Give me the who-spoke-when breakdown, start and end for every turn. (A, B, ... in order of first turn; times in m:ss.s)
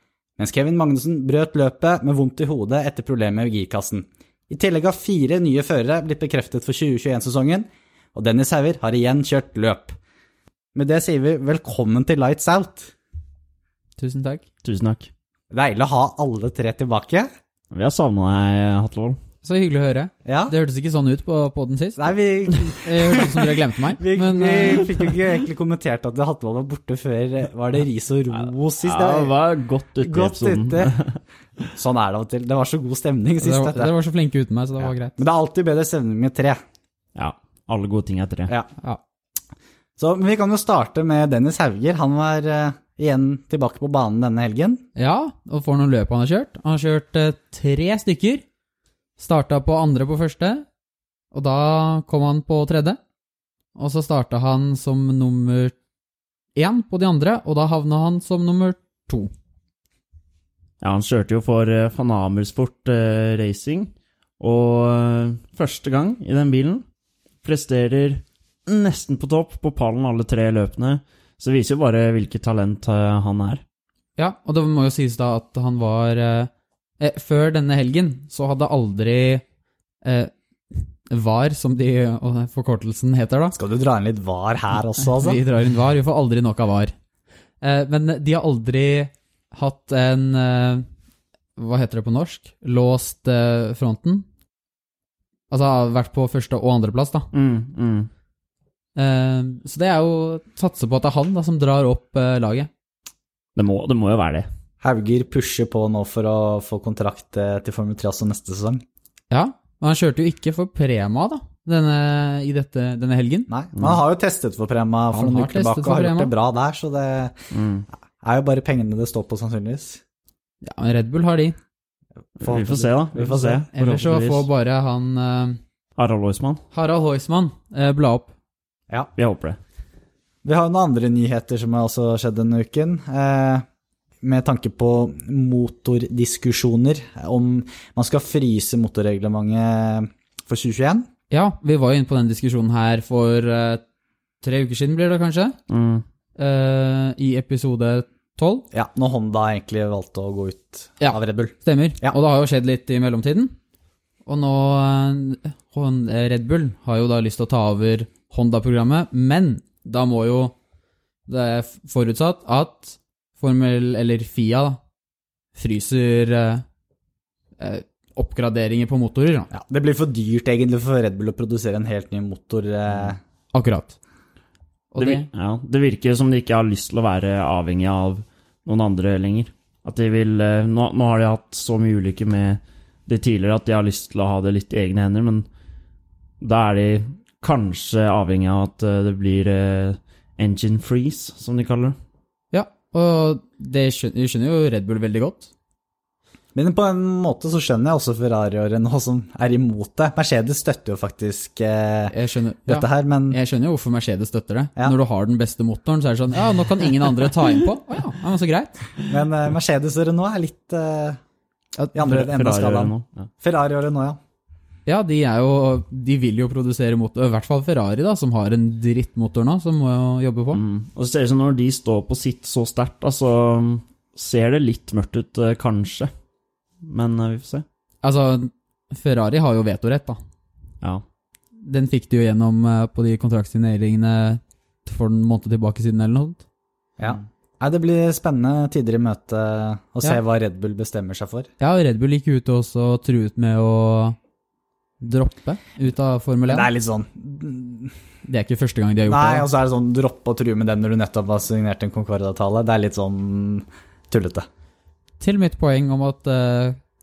0:00.4-0:10.0 A
0:10.7-0:12.9 A
0:14.0-0:14.4 B
0:14.6-0:15.1 C
0:15.5-0:17.3 A
0:17.7-0:19.2 C
0:19.4-0:22.1 B
0:20.2-0:20.5 A
0:22.0-0:29.3 A
0:22.8-0:24.9 B
0:28.3-0:31.6 C
0:30.0-0:30.9 A
0:31.7-0:33.9 A
0:33.4-0:35.2 B
0:34.8-0:36.6 A
0:37.2-0:38.5 C
0:40.0-0:44.8 A
0:45.0-0:48.4 B
0:49.2-0:50.6 B
0:51.3-0:53.0 B
0:53.8-0:55.7 B
0:56.6-0:59.3 B
1:00.8-1:06.8 C
1:07.4-1:13.6 C
1:14.2-1:19.4 B
1:20.0-1:23.6 B
1:23.5-1:25.4 A
1:25.0-1:26.9 B
1:27.6-1:30.8 B
1:31.6-1:34.2 B
1:35.5-1:37.3 B
1:37.3-1:38.1 C
1:39.0-1:42.7 B
1:43.6-1:44.5 C
1:44.8-1:48.8 A
1:49.3-1:53.5 B
1:53.5-1:57.4 A
1:55.1-1:56.3 B
1:57.5-1:57.8 C
1:58.2-2:00.0 A
2:00.6-2:01.6 B
2:02.4-2:03.7 A
2:02.4-2:04.5 C
2:03.7-2:05.6 B
2:06.0-2:06.6 C
2:06.7-2:08.3 B
2:09.2-2:09.6 C
2:10.4-2:13.6 A
2:14.2-2:21.1 A
2:21.3-2:23.8 B
2:24.4-2:25.6 B
2:25.7-2:26.0 C
2:26.4-2:28.6 B
2:28.7-2:32.2 A
2:31.0-2:33.5 B
2:34.2-2:40.5 B
2:41.3-2:44.8 B
2:45.5-2:46.6 B
2:47.6-2:49.5 B
2:49.5-2:53.2 A
2:53.5-2:54.0 B
2:54.9-2:55.3 B
2:55.0-3:05.5 C
3:06.4-3:12.0 C
3:12.5-3:15.5 B
3:16.5-3:22.1 A
3:22.1-3:28.8 B
3:22.7-3:23.4 A
3:29.1-3:31.2 A
3:31.9-3:34.2 A
3:32.0-3:33.3 C
3:34.8-3:40.6 B
3:40.5-3:46.1 C
3:46.8-3:47.6 C
3:48.0-3:50.2 B
3:51.6-3:56.4 B
3:57.0-4:01.5 A
4:01.6-4:04.2 B
4:05.0-4:06.7 B
4:06.5-4:07.9 A
4:08.2-4:09.5 B
4:09.1-4:14.5 A
4:15.2-4:16.8 B